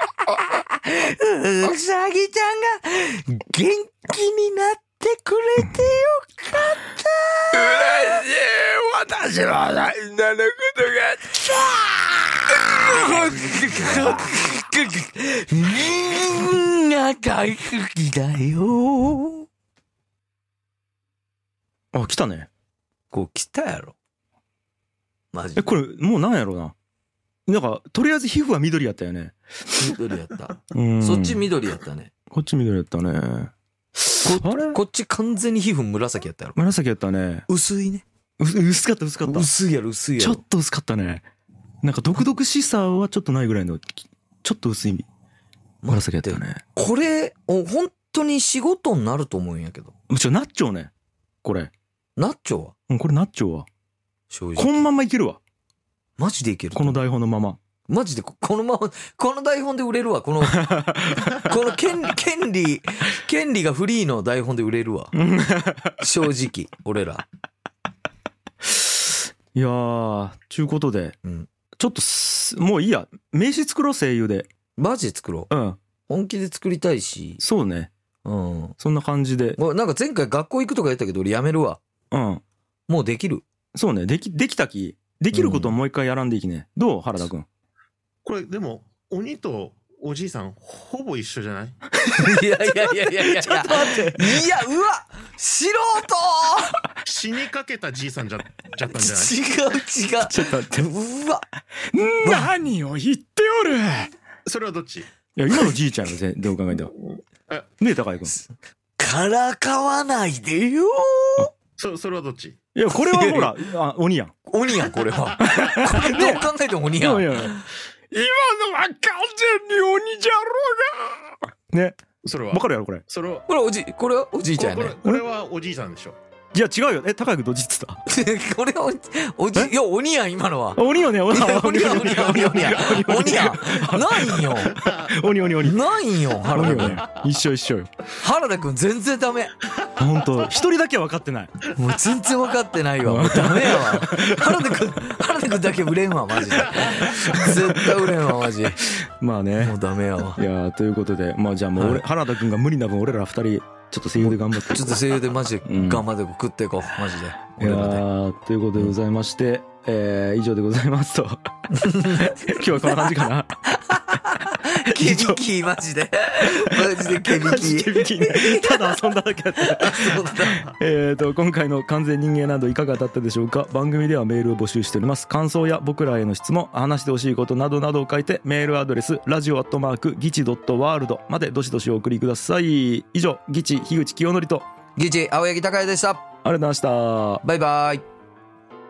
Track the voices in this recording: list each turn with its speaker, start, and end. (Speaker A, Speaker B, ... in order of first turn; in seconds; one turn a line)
Speaker A: 0.6-11.9
Speaker B: 7.6-10.6
Speaker A: 12.5-19.5
Speaker C: 21.9-22.5
Speaker A: 23.1-23.9
Speaker A: 25.3-25.7
Speaker C: 25.6-26.7
Speaker C: 27.5-29.9
Speaker A: 29.8-32.1
Speaker C: 30.7-31.4
Speaker C: 32.3-34.8
Speaker A: 34.2-36.5
Speaker C: 36.5-37.5
Speaker A: 37.5-38.0
Speaker C: 38.4-39.5
Speaker A: 39.2-40.4
Speaker C: 40.2-41.3
Speaker C: 41.8-45.1
Speaker A: 45.8-49.9
Speaker C: 45.9-46.6
Speaker C: 50.1-50.9
Speaker C: 51.4-51.7
Speaker A: 52.2-52.7
Speaker C: 52.9-53.7
Speaker A: 54.3-54.9
Speaker C: 54.5-55.4
Speaker A: 56.2-57.0
Speaker C: 56.7-57.6
Speaker A: 57.9-65.1
Speaker C: 60.5-61.5
Speaker C: 65.1-66.0
Speaker A: 66.0-67.2
Speaker C: 68.6-71.2
Speaker A: 71.2-71.5
Speaker C: 71.8-74.5
Speaker A: 74.8-75.5
Speaker C: 75.5-75.8
Speaker A: 76.1-77.4
Speaker C: 77.4-77.9
Speaker A: 78.2-78.8
Speaker C: 78.8-79.6
Speaker A: 79.6-81.8
Speaker C: 82.1-82.4
Speaker A: 82.9-83.4
Speaker C: 83.7-87.5
Speaker A: 85.3-85.8
Speaker D: 88.2-91.8
Speaker C: 92.0-94.5
Speaker A: 92.1-96.8
Speaker D: 97.0-99.3
Speaker A: 98.9-101.4
Speaker C: 100.2-100.9
Speaker B: 101.9-104.1
Speaker A: 102.2-102.5
Speaker D: 104.5-105.1
Speaker C: 105.3-106.9
Speaker C: 107.8-108.4
Speaker A: 108.3-111.5
Speaker D: 111.8-112.6
Speaker C: 112.7-114.3
Speaker A: 112.9-113.6
Speaker A: 114.5-117.6
Speaker C: 115.4-117.6
Speaker B: 118.1-121.3
Speaker C: 121.7-122.0
Speaker D: 122.2-123.5
Speaker C: 122.5-123.0
Speaker A: 123.5-125.0
Speaker D: 124.5-126.2
Speaker C: 126.5-128.0
Speaker A: 128.1-134.8
Speaker C: 130.7-135.8
Speaker D: 134.7-135.2
Speaker A: 135.6-137.1
Speaker C: 136.5-137.9
Speaker A: 138.1-139.5
Speaker C: 139.9-141.5
Speaker A: 141.7-148.8
Speaker C: 143.0-144.8
Speaker D: 146.6-147.1
Speaker C: 147.2-148.1
Speaker C: 148.8-149.7
Speaker A: 149.6-150.4
Speaker C: 150.3-154.9
Speaker A: 151.8-152.0
Speaker A: 154.2-158.0
Speaker C: 155.6-156.0
Speaker C: 157.5-161.5
Speaker A: 161.7-163.1
Speaker C: 162.0-163.6
Speaker A: 163.7-169.1
Speaker C: 164.8-165.4
Speaker C: 166.4-184.7
Speaker A: 169.6-170.7
Speaker A: 184.9-186.2
Speaker C: 186.4-187.4
Speaker A: 187.4-188.0